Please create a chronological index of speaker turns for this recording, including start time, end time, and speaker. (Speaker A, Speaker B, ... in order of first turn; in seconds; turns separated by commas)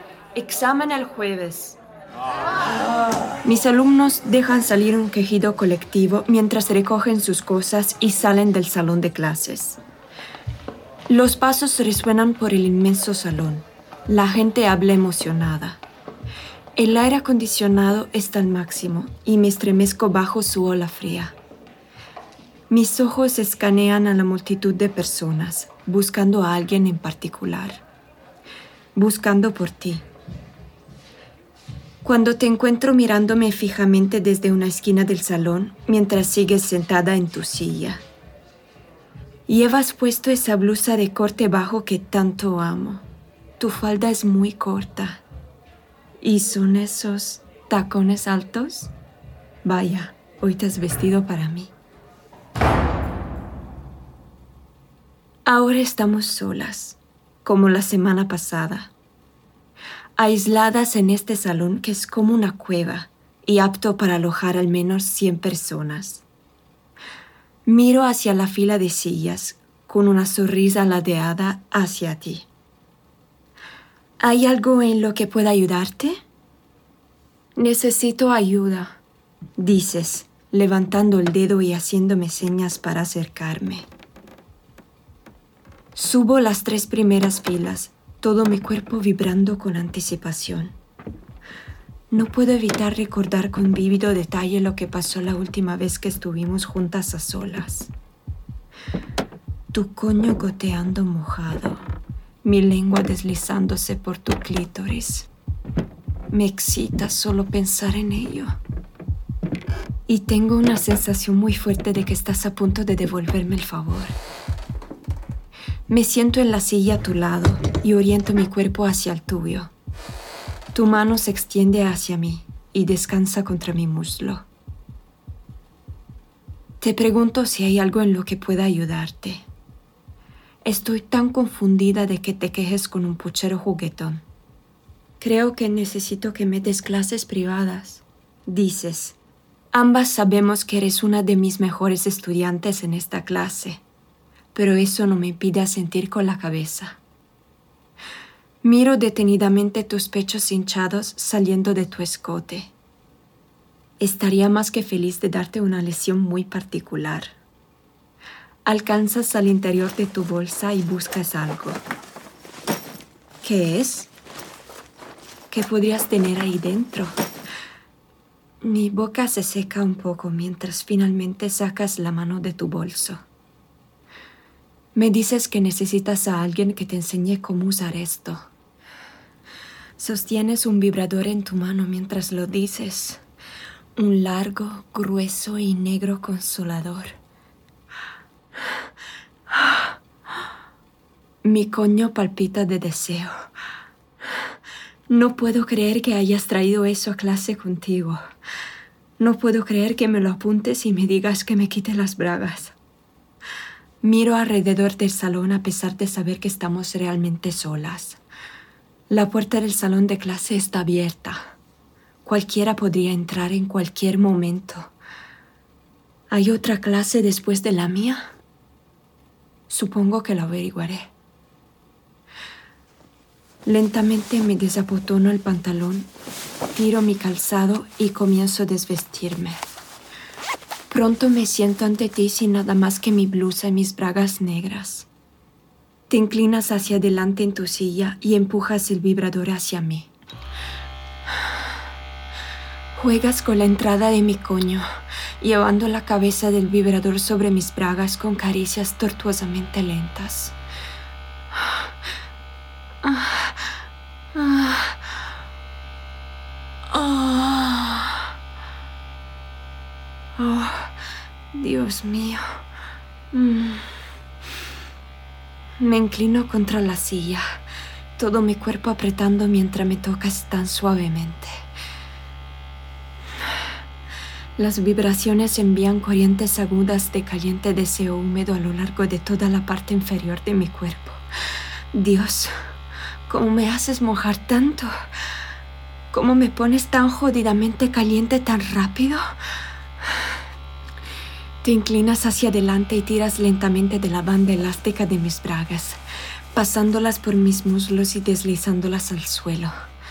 Speaker A: 0.3-1.8, Speaker A: 3.4-9.8, Speaker A: 11.1-15.8, Speaker A: 16.8-21.4, Speaker A: 22.7-27.8, Speaker A: 28.9-30.1, Speaker A: 32.0-38.0, Speaker A: 39.5-43.0, Speaker A: 43.6-45.2, Speaker A: 46.2-48.9, Speaker A: 49.6-51.7, Speaker A: 55.5-58.9, Speaker A: 60.2-66.2, Speaker A: 67.7-72.5, Speaker A: 74.2-76.2, Speaker A: 77.5-79.0, Speaker A: 79.6-83.9, Speaker A: 85.9-90.8, Speaker A: 92.1-97.9, Speaker A: 99.7-101.8, Speaker A: 102.4-105.3, Speaker A: 106.3-108.6, Speaker A: 110.1-114.2, Speaker A: 115.9-119.7, Speaker A: 120.7-124.5, Speaker A: 126.8-129.4, Speaker A: 130.6-134.2, Speaker A: 135.2-139.2, Speaker A: 139.7-143.8, Speaker A: 144.5-147.0, Speaker A: 148.6-152.7, Speaker A: 154.0-157.3, Speaker A: 158.6-161.8, Speaker A: 163.4-164.1, Speaker A: 165.5-167.2, Speaker A: 168.6-173.2, Speaker A: 174.9-178.5, Speaker A: 180.0-183.2, Speaker A: 183.9-187.2, Speaker A: 191.4-193.4, Speaker A: 195.1-198.2, Speaker A: 199.2-202.8, Speaker A: 204.0-208.2, Speaker A: 209.1-211.5, Speaker A: 212.2-214.9, Speaker A: 216.3-218.3, Speaker A: 219.7-221.1, Speaker A: 223.6-226.1, Speaker A: 226.7-229.6, Speaker A: 230.9-235.1, Speaker A: 236.1-240.1, Speaker A: 242.9-244.8, Speaker A: 245.4-250.6, Speaker A: 253.0-253.8, Speaker A: 254.3-255.2, Speaker A: 256.9-258.3, Speaker A: 260.4-261.0, Speaker A: 261.5-262.4, Speaker A: 263.3-263.9, Speaker A: 265.8-267.5, Speaker A: 268.1-271.6, Speaker A: 274.6-281.2, Speaker A: 281.9-282.5, Speaker A: 283.3-284.9, Speaker A: 286.1-289.2, Speaker A: 291.6-296.0, Speaker A: 296.5-299.7